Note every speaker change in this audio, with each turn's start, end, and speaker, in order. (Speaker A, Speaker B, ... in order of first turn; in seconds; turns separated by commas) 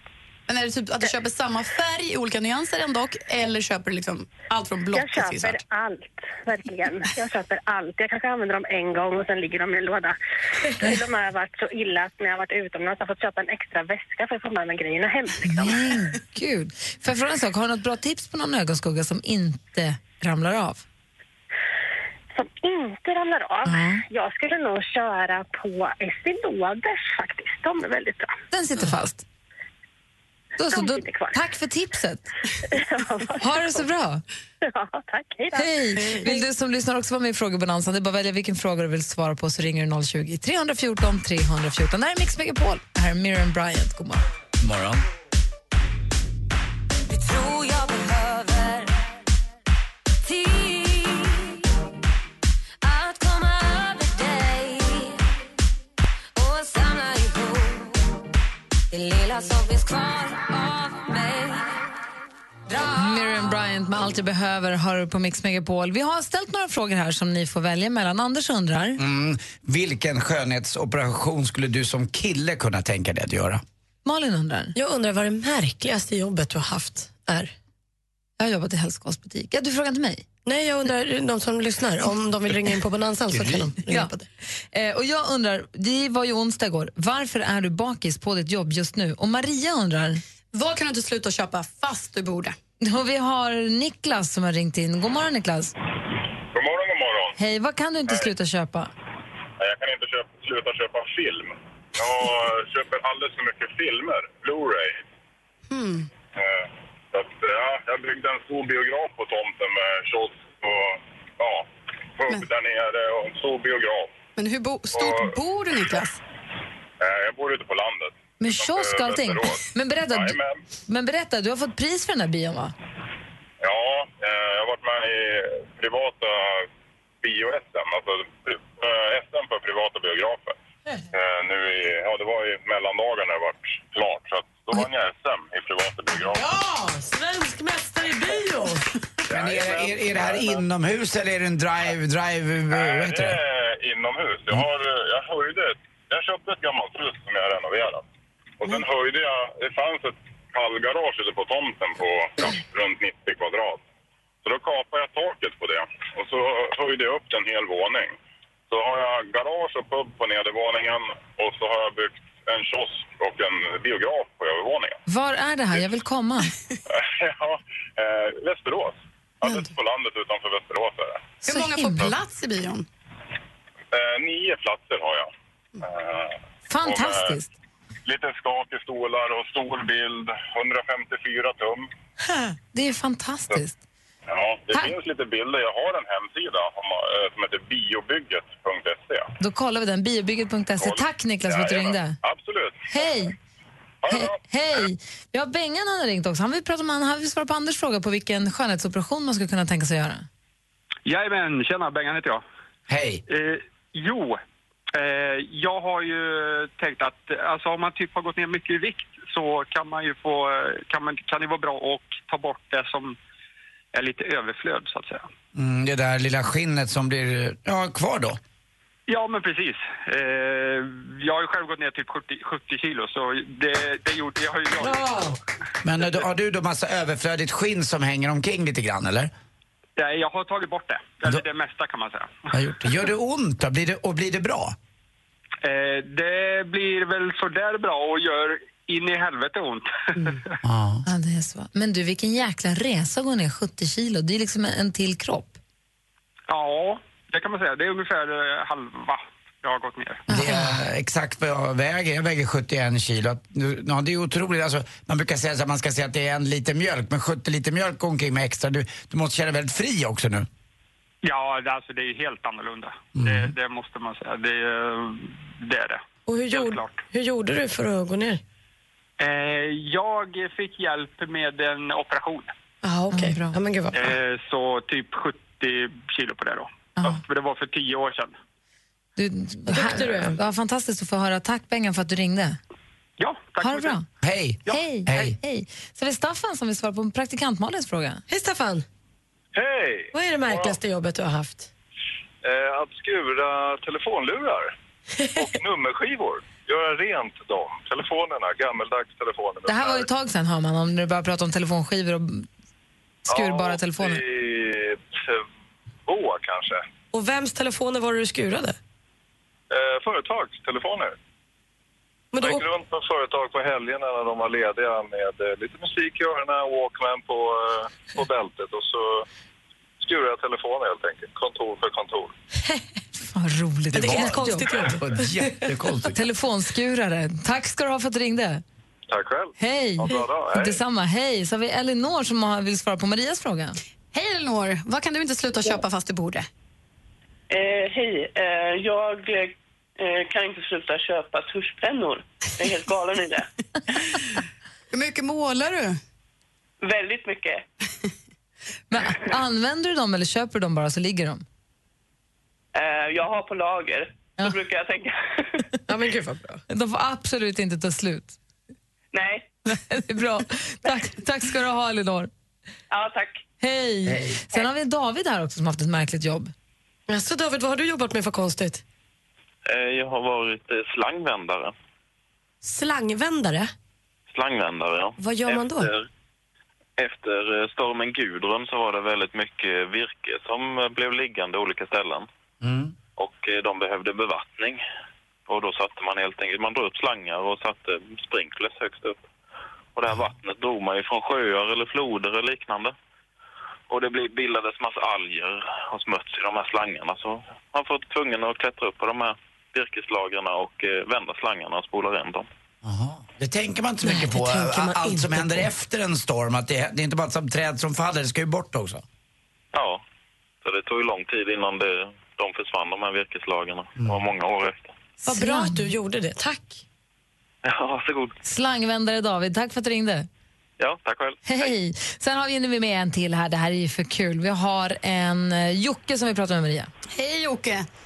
Speaker A: 0.5-5.6, Speaker B: 4.9-15.8, Speaker C: 15.5-20.8, Speaker B: 22.3-28.3, Speaker C: 23.6-24.0, Speaker C: 28.5-29.2, Speaker C: 30.6-32.2, Speaker B: 30.7-31.4, Speaker B: 32.7-33.8, Speaker C: 33.4-34.2, Speaker B: 34.6-36.4, Speaker C: 35.5-44.2, Speaker D: 44.6-45.1, Speaker E: 47.1-48.9, Speaker E: 50.2-51.6, Speaker E: 52.8-55.2, Speaker E: 56.4-58.1, Speaker E: 58.9-61.8, Speaker C: 62.8-69.0, Speaker D: 69.0-73.6, Speaker C: 74.0-74.7, Speaker F: 74.8-77.5, Speaker C: 78.4-80.2, Speaker F: 80.5-84.2, Speaker D: 83.3-83.7, Speaker C: 83.8-84.1, Speaker C: 84.7-90.2, Speaker A: 90.5-92.6, Speaker C: 92.8-95.7, Speaker G: 96.5-97.4, Speaker C: 97.4-98.9, Speaker G: 99.6-105.0, Speaker A: 105.7-106.1, Speaker G: 106.3-111.7, Speaker G: 112.2-114.1, Speaker A: 114.4-116.2, Speaker G: 114.9-115.3, Speaker G: 117.0-120.6, Speaker C: 118.4-122.7, Speaker G: 123.6-126.7, Speaker G: 127.2-130.6, Speaker G: 131.1-136.4, Speaker F: 136.2-138.9, Speaker G: 139.3-140.6, Speaker D: 139.3-143.4, Speaker G: 142.7-148.1, Speaker G: 148.6-153.8, Speaker G: 154.4-158.2, Speaker G: 158.7-165.0, Speaker C: 165.1-166.5, Speaker G: 166.9-171.2, Speaker A: 171.4-172.8, Speaker C: 171.5-172.1, Speaker G: 173.9-175.3, Speaker G: 175.8-177.4, Speaker C: 176.7-177.5, Speaker G: 178.1-181.9, Speaker C: 182.3-183.8, Speaker G: 184.3-189.3, Speaker C: 189.4-192.2, Speaker G: 190.8-193.1, Speaker C: 192.9-193.4, Speaker G: 194.0-194.4, Speaker C: 194.1-200.3, Speaker H: 201.1-202.4, Speaker D: 202.9-203.2, Speaker H: 203.3-204.4, Speaker H: 204.9-213.2, Speaker H: 213.9-215.3, Speaker D: 215.5-218.4, Speaker H: 219.1-225.3, Speaker F: 224.8-225.3, Speaker D: 225.8-229.3, Speaker H: 230.0-232.5, Speaker D: 232.5-234.8, Speaker H: 235.6-240.4, Speaker D: 240.6-241.1, Speaker C: 241.1-245.6, Speaker H: 246.5-250.2, Speaker D: 250.3-260.5, Speaker C: 250.3-250.7, Speaker H: 261.2-267.0, Speaker D: 263.1-263.5, Speaker F: 266.3-268.4, Speaker H: 269.2-272.5, Speaker F: 272.8-274.1, Speaker C: 273.1-273.6, Speaker H: 273.9-278.4, Speaker C: 279.2-282.6, Speaker F: 279.7-280.4, Speaker H: 283.2-284.0, Speaker C: 283.6-284.1, Speaker D: 284.2-285.4, Speaker C: 284.6-288.2, Speaker F: 288.3-288.9, Speaker I: 289.5-290.8, Speaker F: 290.1-291.7, Speaker I: 292.4-300.1, Speaker C: 299.6-302.4, Speaker C: 303.3-304.2, Speaker I: 303.3-305.4, Speaker I: 306.1-306.9, Speaker F: 307.1-308.8, Speaker I: 309.7-311.1, Speaker F: 312.3-312.7, Speaker I: 312.4-319.3, Speaker I: 320.0-322.4, Speaker C: 323.2-324.9, Speaker D: 323.9-326.3, Speaker F: 323.9-325.5, Speaker C: 326.1-328.6, Speaker I: 329.1-330.8, Speaker C: 329.6-333.8, Speaker A: 334.1-336.4, Speaker J: 337.5-343.5, Speaker A: 344.9-346.0, Speaker J: 346.8-347.6, Speaker C: 348.9-351.4, Speaker J: 352.8-355.6, Speaker F: 355.9-356.6, Speaker C: 356.7-358.4, Speaker J: 359.1-359.5, Speaker C: 359.7-362.3, Speaker J: 362.9-363.4, Speaker C: 363.6-366.5, Speaker D: 364.1-364.4, Speaker F: 367.1-368.8, Speaker K: 369.6-371.7, Speaker F: 372.6-373.7, Speaker K: 374.3-376.1, Speaker F: 375.2-375.9, Speaker K: 377.0-382.3, Speaker D: 382.6-382.9, Speaker K: 383.2-384.8, Speaker K: 385.5-389.2, Speaker K: 389.9-392.9, Speaker K: 393.9-402.5, Speaker D: 402.8-409.0, Speaker F: 404.1-405.7, Speaker K: 409.7-410.0, Speaker K: 410.6-414.9, Speaker C: 415.2-415.9, Speaker F: 415.2-416.8, Speaker K: 417.6-418.3, Speaker C: 418.4-420.3, Speaker K: 420.8-421.7, Speaker C: 421.4-426.9, Speaker A: 427.1-427.9